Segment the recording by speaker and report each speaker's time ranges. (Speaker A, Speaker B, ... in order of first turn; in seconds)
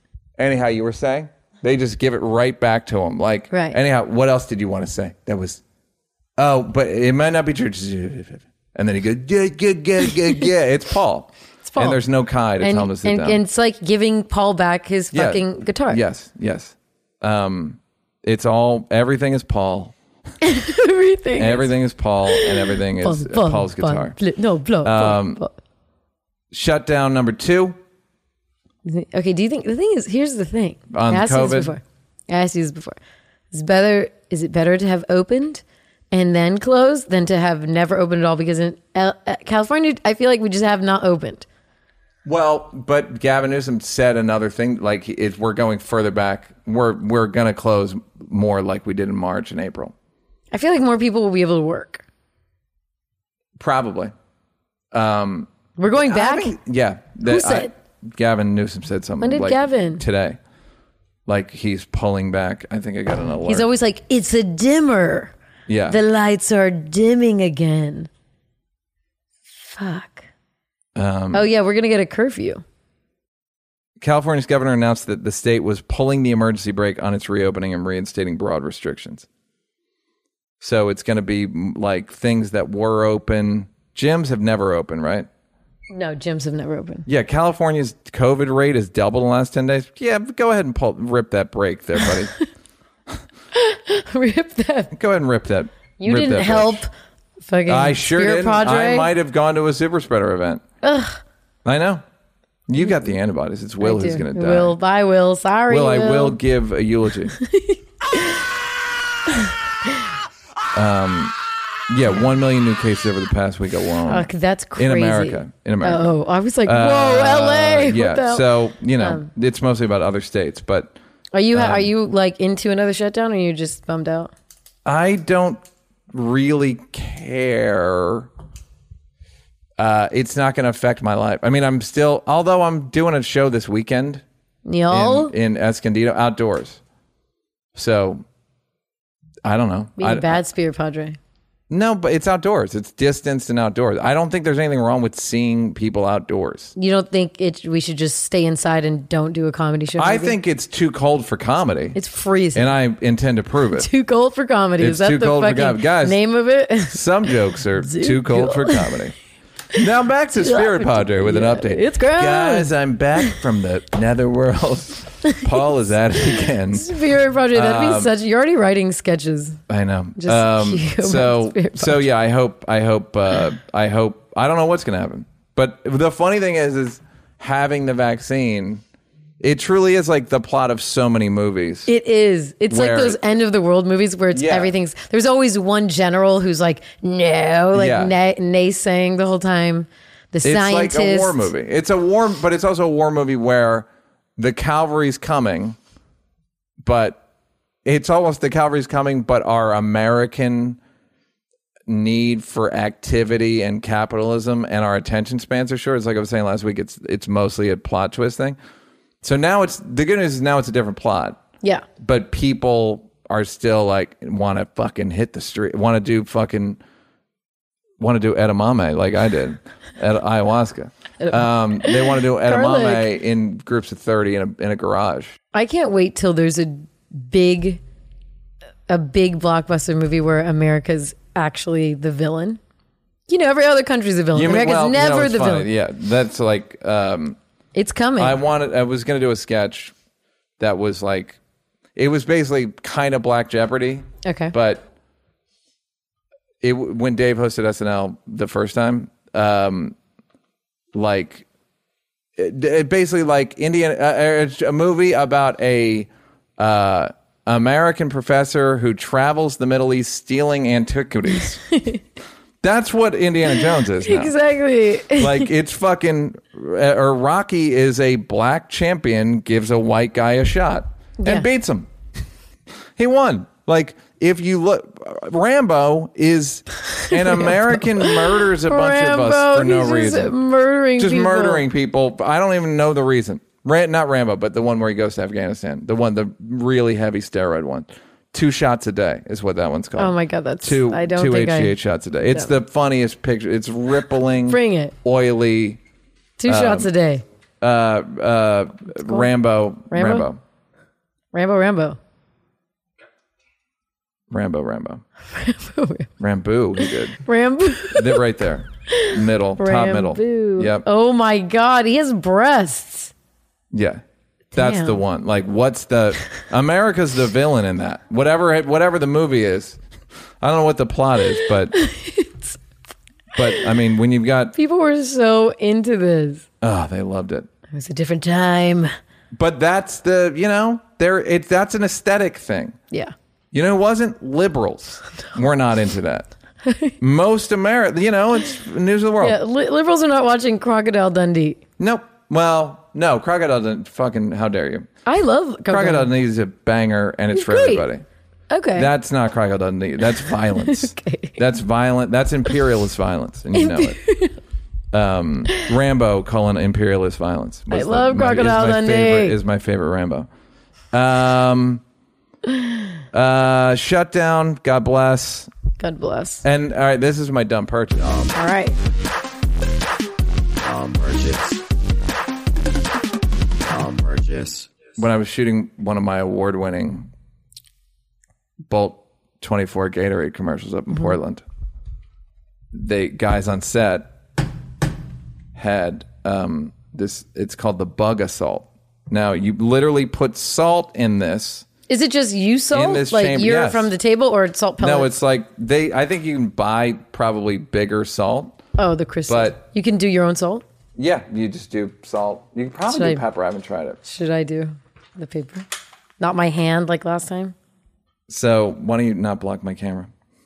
Speaker A: 0.4-5.6, 6.4-13.4, 15.1-19.9, 21.4-24.2, 24.8-25.4, 26.5-27.8, 30.9-31.8, 42.2-49.9, 53.6-54.1, 54.9-60.4, 61.3-63.7, 65.7-66.0, 71.0-71.5, 74.0-79.3, 80.6-85.3, 87.1-92.3, 94.9-96.8, 97.7-100.6, 101.7-102.0, 102.7-104.8, 105.7-107.4, 110.7-111.3, 111.9-116.1, 116.6-121.0, 121.5-121.9, 124.8-128.3, 129.8-134.2, 134.9-136.8, 137.8-138.2, 139.4-140.4, 141.7-146.7, 150.0-152.0, 152.5-153.9, 154.8-156.2, 156.8-159.2, 159.7-167.0, 167.5-168.1, 169.7-178.8, 179.4-181.9, 182.7-183.2, 184.3-184.7, 187.7-188.1, 190.4-195.8, 196.8-197.2, 197.8-200.8, 201.9-208.6, 209.2-211.4, 212.0-216.8, 218.0-225.4, 234.3-237.4, 238.2-239.9, 240.6-241.4, 242.0-244.9, 246.6-250.0, 250.9-251.5, 252.4-261.6, 262.6-264.4, 265.1-271.9, 273.0-280.3, 281.0-295.8, 296.5-296.9, 297.6-300.4, 304.3-305.0, 306.2-307.2, 307.9-310.9, 313.7-314.0, 314.5-319.8, 320.4-321.8, 323.3-324.5, 326.6-327.5, 329.3-332.8, 333.5-336.3, 337.0-339.4, 341.8-344.9, 345.7-348.0, 348.8-354.0, 354.9-360.3, 360.9-361.8, 363.1-365.5, 366.4-368.1, 374.9-377.1, 378.7-381.4, 382.7-384.1, 385.6-391.7, 392.7-393.9, 394.8-398.6, 399.3-399.6, 401.0-404.0, 408.3-410.1
Speaker B: 3.5-3.8, 11.7-12.0, 12.6-16.0, 20.4-21.7, 22.3-25.5, 28.9-33.0, 33.5-41.5, 50.5-52.0, 55.8-56.6, 57.2-57.7, 59.2-60.0, 63.5-65.3, 65.9-68.1, 69.6-70.3, 71.3-72.6, 85.9-87.1, 93.5-94.9, 96.0-96.9, 97.4-99.1, 100.8-101.2, 103.8-106.4, 107.4-108.5, 114.1-118.5, 119.0-119.3, 121.3-124.3, 134.7-135.3, 140.0-141.2, 146.8-150.4, 151.9-152.7, 153.8-157.0, 157.8-158.9, 160.4-163.3, 166.7-169.6, 170.2-172.1, 181.9-191.5, 221.2-223.1, 225.5-227.8, 228.9-232.6, 233.3-235.7, 237.8-238.4, 244.2-244.5, 261.3-262.0, 263.6-265.5, 271.2-271.5, 277.1-281.7, 290.0-291.8, 294.5-294.9, 296.4-297.2, 299.9-300.3, 301.3-302.0, 305.4-306.1, 307.2-308.2, 308.9-313.1, 314.6-315.0, 321.7-322.6, 324.6-326.5, 327.7-328.9, 336.6-336.9, 339.2-341.6, 345.1-346.1, 347.3-347.9, 348.5-348.9, 350.6-351.4, 353.5-354.4, 357.7-359.4, 365.8-366.4, 368.3-368.8, 391.9-395.1, 398.8-400.6, 402.9-403.2, 404.0-405.6, 406.2-407.5
Speaker C: 370.6-371.6, 373.7-374.7